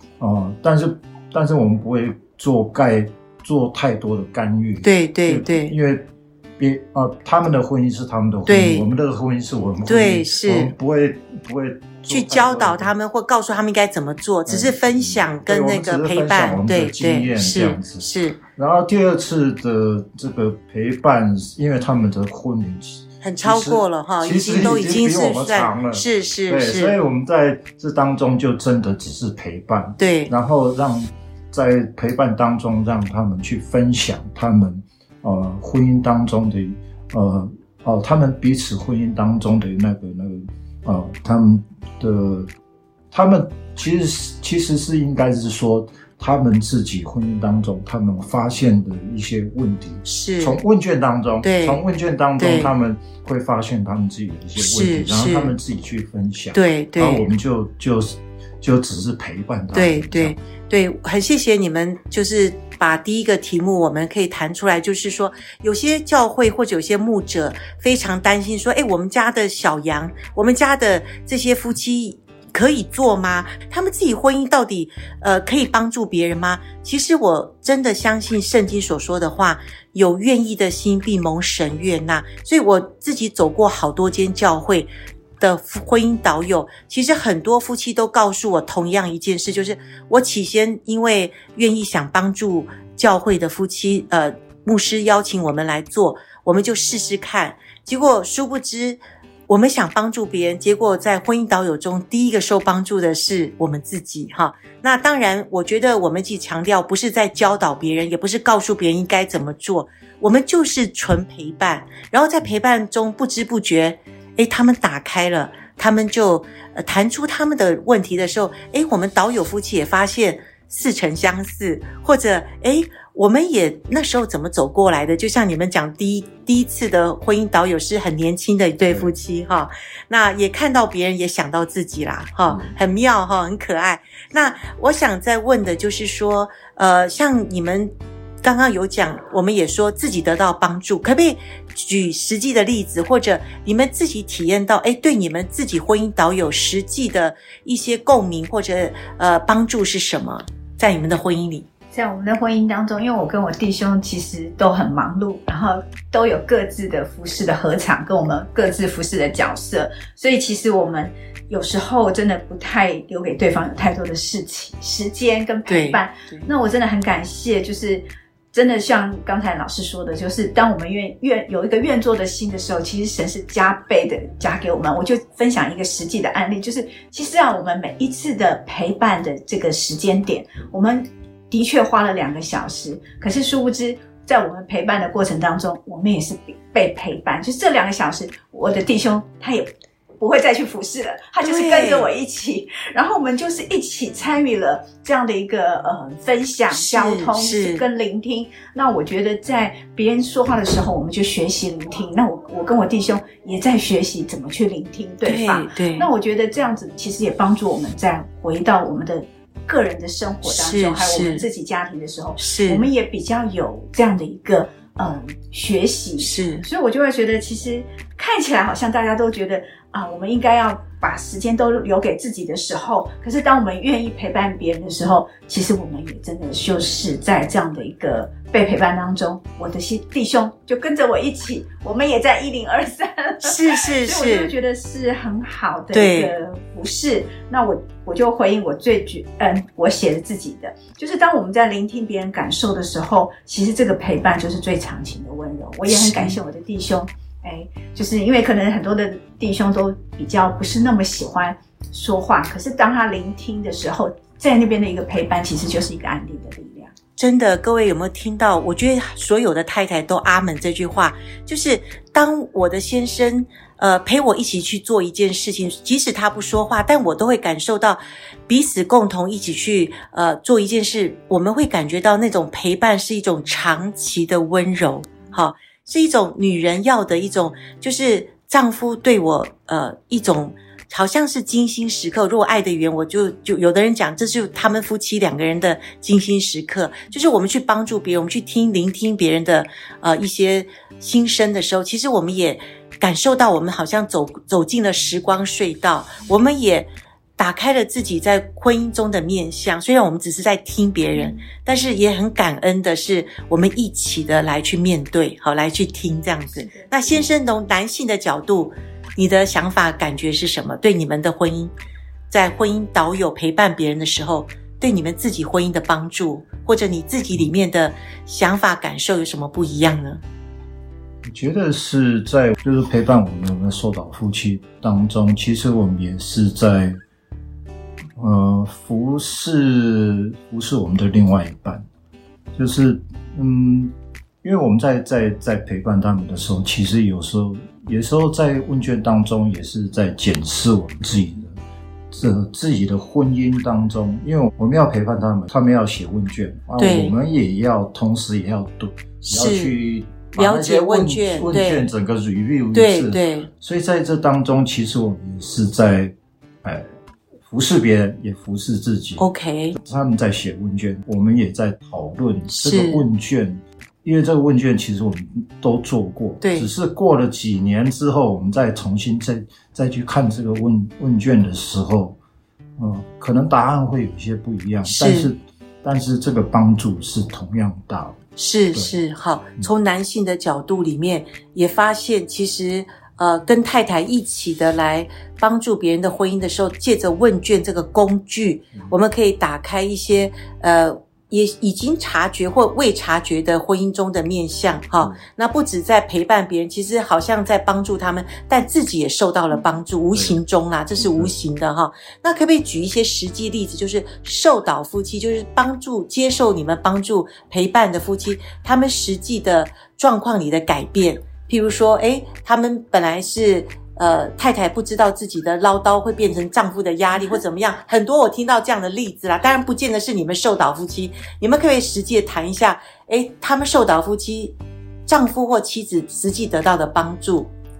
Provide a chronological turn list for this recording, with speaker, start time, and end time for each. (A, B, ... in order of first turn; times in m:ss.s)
0:00.2-0:12.9 A
0:04.8-0:05.7 B
0:08.5-0:08.8 B
0:09.9-0:10.7 B
0:12.1-0:18.4 B
0:14.4-0:42.5 A
0:23.2-0:27.0 B
0:30.0-0:30.3 B
0:43.1-1:00.4 A
0:50.0-0:50.6 B
0:51.4-0:51.8 B
0:52.4-0:52.7 B
0:54.6-0:55.5 B
0:56.5-0:57.2 B
0:59.7-2:31.7 B
2:08.9-2:09.1 A
2:12.5-2:12.7 A
2:31.9-4:16.9 C
2:45.7-2:46.5 B
3:11.4-3:12.1 B
3:16.7-3:17.8 B
3:25.2-3:26.1 B
3:30.4-3:31.4 B
3:32.4-3:32.8 B
3:36.2-3:36.6 B
3:53.4-3:54.5 B
3:55.9-3:56.3 B
4:05.9-4:06.4 B
4:17.2-5:11.7 B
5:01.1-5:01.4 C
5:06.5-5:07.3 C
5:12.3-5:20.2 B
5:21.2-5:27.0 A
5:28.2-5:31.8 A
5:32.5-5:41.6 A
5:42.1-5:56.9 A
5:46.8-5:47.1 B
5:49.2-5:49.7 B
5:50.4-5:51.9 B
5:52.7-5:53.5 B
5:57.5-5:59.2 A
5:59.2-5:59.8 B
5:59.8-6:12.2 A
6:02.5-6:03.0 B
6:06.4-6:06.7 B
6:12.8-6:18.2 A
6:14.8-6:15.3 B
6:18.4-7:07.5 B
6:18.7-6:19.0 A
6:40.1-6:40.4 A
6:41.0-6:41.3 A